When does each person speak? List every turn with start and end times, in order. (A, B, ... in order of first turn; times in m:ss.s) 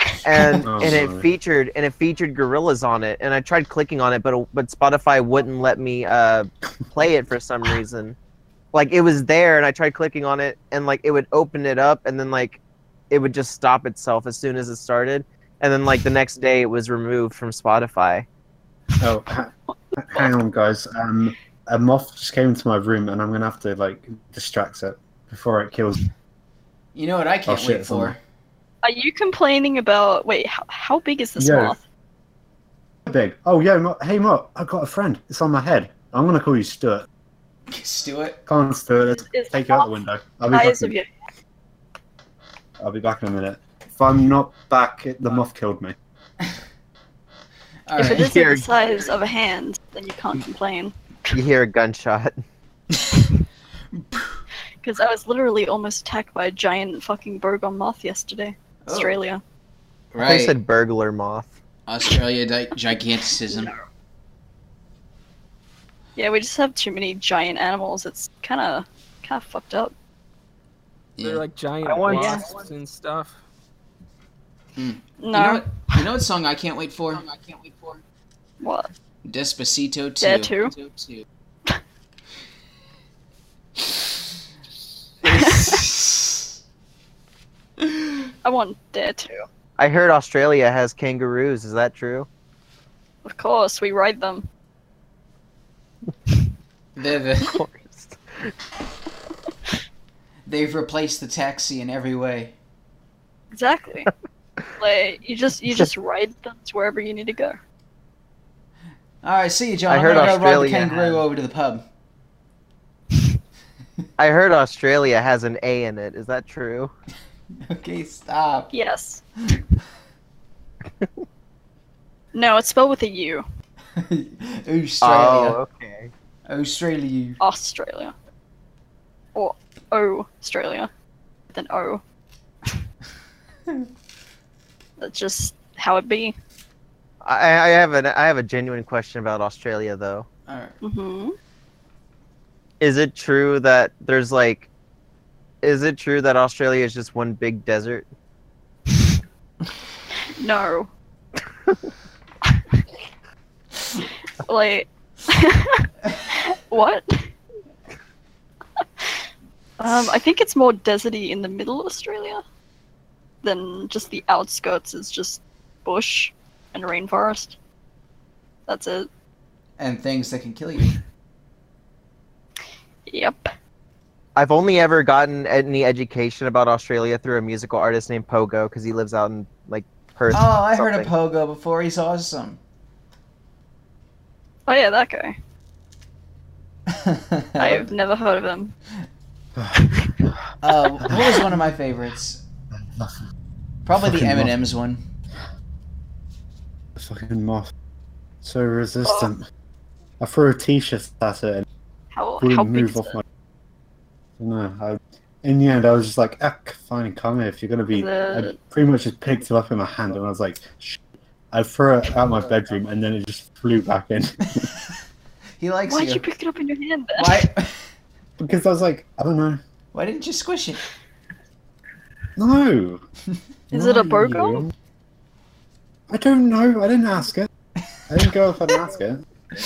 0:00.2-0:08.2 A
0:00.6-0:01.3 B
0:08.7-0:18.3 A
0:19.0-0:26.0 B
0:26.9-0:28.2 C
0:27.5-0:28.2 B
0:28.8-0:31.8 D
0:31.4-0:31.8 B
0:33.1-0:37.1 B
0:37.7-0:38.4 C
0:38.5-0:40.9 B
0:39.3-0:39.9 D
0:40.5-0:41.1 D
0:42.8-0:46.0 B
0:47.9-0:48.4 C
0:48.0-0:51.4 D
0:48.0-0:48.7 A
0:51.3-0:52.4 A
0:54.0-0:54.2 C
0:54.8-0:59.4 D
0:58.8-0:59.2 C
1:00.1-1:00.6 C
1:00.2-1:01.6 A
1:01.9-1:03.7 C
1:03.5-1:03.8 D
1:06.2-1:09.9 D
1:11.2-1:11.4 C
1:11.2-1:13.4 E
1:11.8-1:12.7 A
1:12.1-1:12.5 D
1:14.8-1:17.4 C
1:15.2-1:16.0 D
1:18.6-1:18.9 D
1:19.2-1:21.2 C
1:20.2-1:20.7 D
1:25.2-1:26.4 C
1:25.3-1:25.8 D
1:28.4-1:29.4 D
1:29.8-1:32.3 A
1:33.2-1:34.4 D
1:37.0-1:37.6 C
1:37.5-1:38.5 A
1:40.5-1:42.6 C
1:43.5-1:44.1 D
1:44.8-1:47.6 D
1:49.2-1:51.8 C
1:49.9-1:51.2 A
1:54.2-1:56.9 A
1:57.6-1:58.7 C
1:58.7-1:59.2 D
2:02.3-2:03.4 D
2:04.0-2:05.6 C
2:05.0-2:06.1 A
2:06.5-2:07.4 C
2:07.4-2:08.1 D
2:09.4-2:10.9 D
2:11.5-2:12.0 D
2:15.0-2:16.4 D
2:17.2-2:20.3 A
2:20.5-2:20.8 C
2:20.8-2:21.4 D
2:22.8-2:24.7 A
2:25.6-2:28.1 A
2:30.4-2:30.9 D
2:34.4-2:37.3 D
2:39.8-2:42.4 D
2:43.4-2:47.6 D
2:48.7-2:49.1 D
2:49.8-2:51.0 C
2:53.1-2:53.5 D
2:54.4-3:01.1 A
3:00.3-3:02.6 C
3:04.7-3:05.4 D
3:06.9-3:07.9 C
3:07.6-3:08.8 D
3:09.8-3:10.1 D
3:10.6-3:12.4 C
3:11.0-3:11.4 B
3:12.8-3:13.2 B
3:13.9-3:15.0 C
3:14.0-3:14.6 B
3:17.0-3:17.7 B
3:18.4-3:19.4 B
3:20.2-3:21.7 B
3:22.1-3:23.2 D
3:22.4-3:23.2 B
3:24.4-3:31.0 B
3:27.9-3:28.6 D
3:31.5-3:34.7 B
3:34.4-3:34.9 C
3:35.6-3:36.2 C
3:35.9-3:37.5 D
3:37.2-3:37.8 C
3:38.4-3:39.6 B
3:39.9-3:40.8 C
3:42.4-3:43.0 B
3:43.7-3:44.6 D
3:43.7-3:44.7 B
3:46.1-3:47.5 B
3:48.1-3:49.2 B